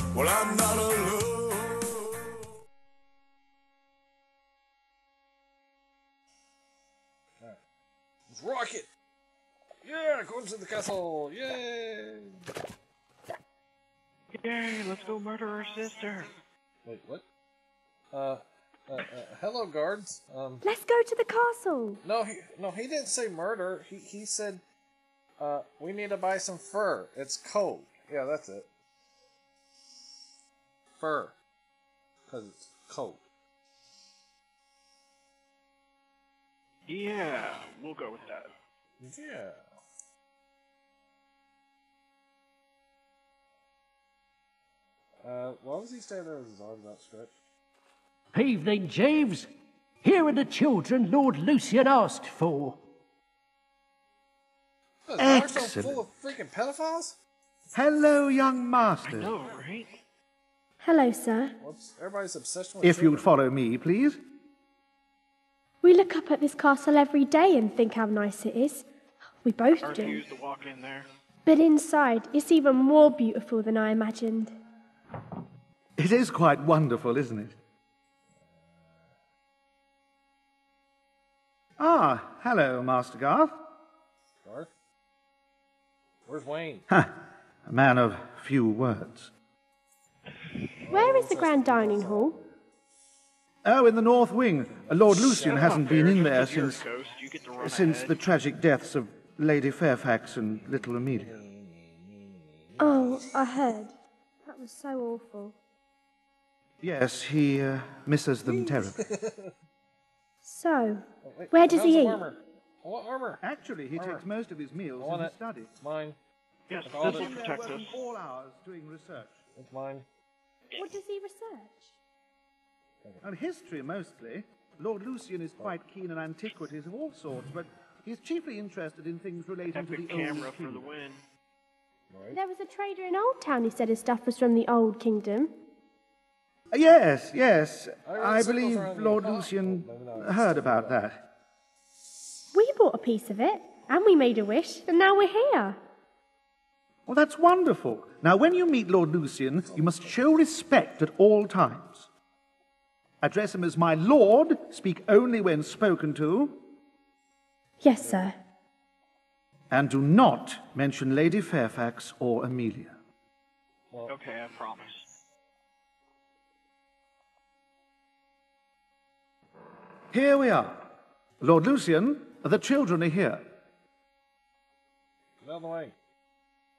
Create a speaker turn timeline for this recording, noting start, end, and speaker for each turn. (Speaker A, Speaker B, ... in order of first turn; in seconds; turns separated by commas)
Speaker A: 0.1-2.4, Speaker B: 8.3-8.9, Speaker B: 9.8-12.4, Speaker C: 14.3-16.3, Speaker B: 16.9-17.2, Speaker B: 18.1-20.6, Speaker D: 20.6-22.0, Speaker B: 22.0-24.6, Speaker B: 25.4-28.7, Speaker B: 31.0-31.4, Speaker B: 32.3-33.2, Speaker C: 36.9-38.5, Speaker B: 39.0-39.6, Speaker B: 45.2-47.3, Speaker E: 48.3-49.5, Speaker E: 50.0-52.8, Speaker B: 55.0-57.2, Speaker F: 55.2-56.0, Speaker F: 57.7-59.4, Speaker C: 59.0-60.0, Speaker D: 60.8-61.5, Speaker B: 61.6-63.3, Speaker F: 62.8-64.2, Speaker D: 65.8-68.9, Speaker D: 69.4-70.2, Speaker C: 69.8-71.1, Speaker D: 71.5-74.6, Speaker F: 76.0-77.6, Speaker B: 78.4-79.2, Speaker F: 81.8-83.5, Speaker B: 84.4-84.7, Speaker B: 86.3-86.9, Speaker F: 86.9-89.3, Speaker B: 90.8-92.6, Speaker D: 90.9-92.4, Speaker F: 93.7-96.8, Speaker B: 94.6-96.2, Speaker C: 95.4-98.2, Speaker F: 97.6-101.4, Speaker B: 100.6-103.3, Speaker D: 102.8-105.5, Speaker F: 106.8-109.0, Speaker B: 108.4-109.5, Speaker D: 110.5-112.2, Speaker B: 111.2-113.4, Speaker F: 113.4-115.7, Speaker B: 114.0-114.2, Speaker B: 115.0-116.2, Speaker C: 116.7-118.0, Speaker B: 116.8-117.4, Speaker F: 116.9-119.4, Speaker B: 119.5-120.0, Speaker D: 120.8-121.9, Speaker F: 123.2-130.9, Speaker C: 129.7-131.2, Speaker B: 132.1-132.4, Speaker D: 132.3-135.5, Speaker F: 136.7-141.2, Speaker B: 138.1-141.1, Speaker D: 142.5-145.8, Speaker F: 147.1-152.1, Speaker B: 149.6-150.2, Speaker F: 153.2-156.6, Speaker D: 157.8-158.4, Speaker B: 158.0-158.3, Speaker F: 159.7-163.0, Speaker C: 164.1-165.1, Speaker F: 170.1-170.8, Speaker F: 171.4-173.4, Speaker B: 175.4-175.9